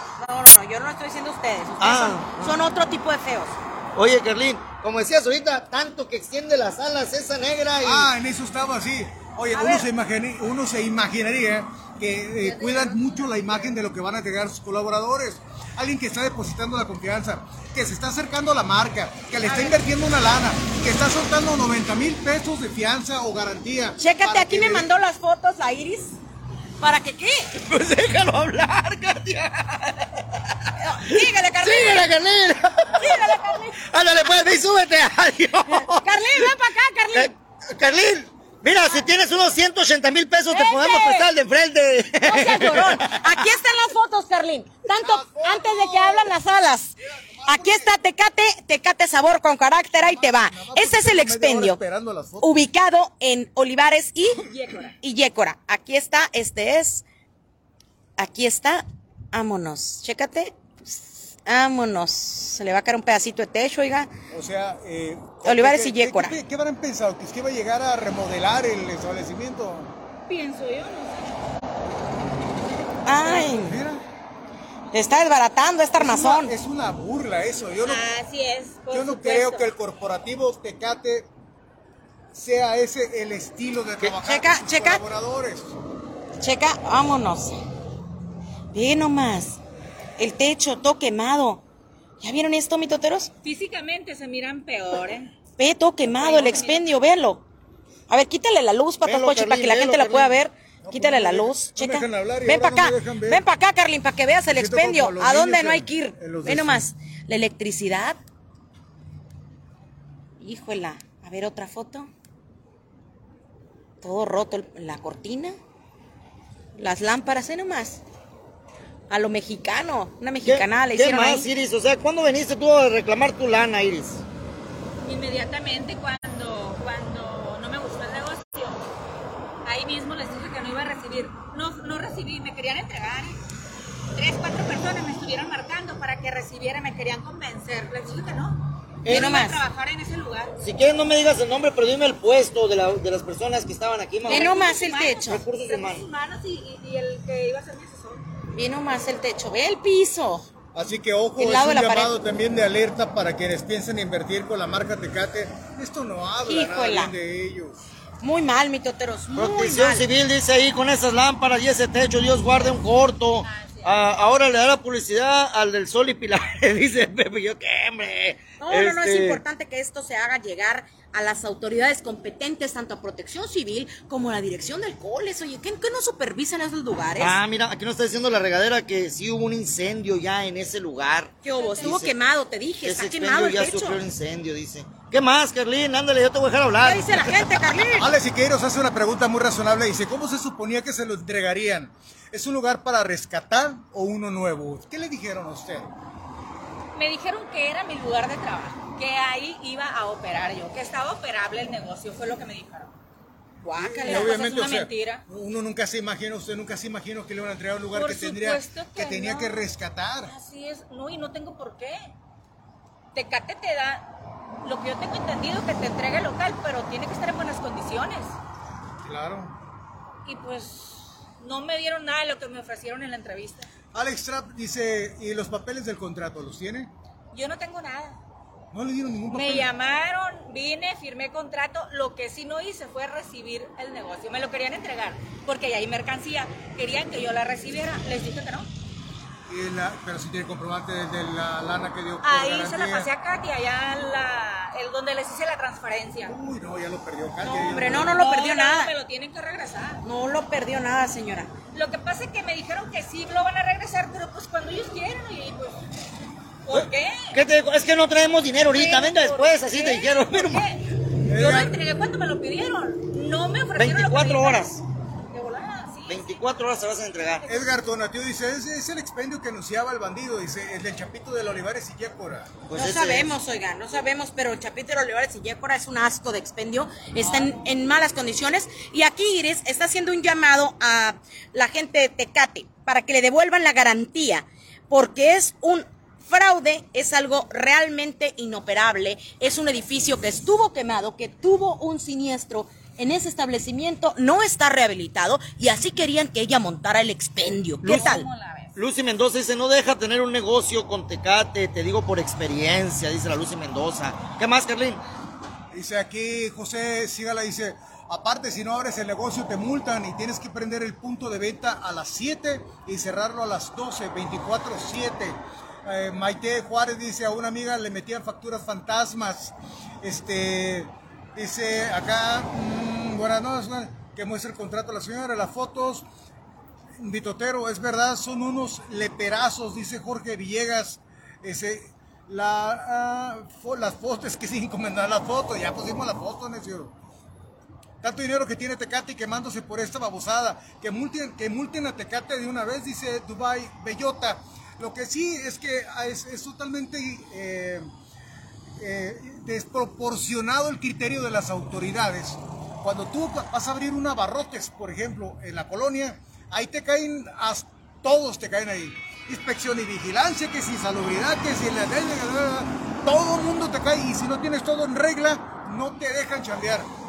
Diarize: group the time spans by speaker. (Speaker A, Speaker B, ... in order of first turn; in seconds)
Speaker A: 0.2-3.6, 9.5-9.9, 12.4-13.5, 19.4-19.8, 24.0-26.2, 26.8-27.5, 30.8-32.1, 33.0-33.8, 35.7-37.3, 40.5-41.3, 42.2-51.8, 52.4-54.4, 55.0-57.0, 58.2-64.1, 65.4-66.4, 73.0-73.8, 74.9-76.5, 84.1-85.0, 86.4-87.6, 88.7-89.6, 90.2-91.6, 92.2-93.3, 95.6-97.4, 98.1-108.2, 110.4-112.1, 114.0-115.5, 116.8-118.0, 119.1-121.5, 139.1-139.6, 144.2-145.4, 148.5-150.4, 151.3-152.1, 156.4-157.1, 158.2-160.1, 168.6-177.4, 181.4-184.0, 186.8-188.1, 203.6-204.5, 247.4-248.9, 250.0-251.5, 272.7-298.3
Speaker B: 1.8-2.6, 3.9-8.1, 27.6-36.5, 37.1-43.4, 99.0-100.4, 120.4-124.2, 139.0-139.4, 140.6-146.1, 159.3-169.4, 177.2-182.2, 182.8-187.5, 256.7-260.6, 263.7-264.8, 266.1-267.5, 272.6-273.3, 297.8-298.1, 298.7-305.0
Speaker C: 7.8-24.9, 44.9-46.3, 47.0-47.9, 50.0-52.5, 64.3-69.9, 73.1-74.0, 76.0-78.1, 78.9-81.3, 82.3-85.8, 96.3-96.7, 100.8-103.4, 104.5-106.9, 150.7-157.8, 188.0-195.9, 203.8-210.3, 219.0-219.5, 223.9-226.9, 228.7-229.7, 239.5-243.1, 246.2-248.2, 261.2-261.8, 267.4-272.6, 305.7-326.0, 327.0-336.9, 338.0-347.9, 348.8-366.9
Speaker D: 54.4-55.0, 70.3-71.3, 77.8-79.7, 93.4-95.3, 96.1-96.8, 125.0-128.8, 129.6-133.4, 134.1-140.5, 144.2-148.3, 163.4-164.1, 181.4-182.0, 196.9-202.9, 204.0-205.2, 207.9-209.6, 210.2-212.1, 213.1-214.1, 214.6-218.4, 220.2-223.7, 227.3-228.2, 229.3-238.7, 242.2-246.3, 247.8-250.0, 251.7-255.8, 256.6-257.4, 258.7-266.6, 267.4-267.7, 297.8-298.8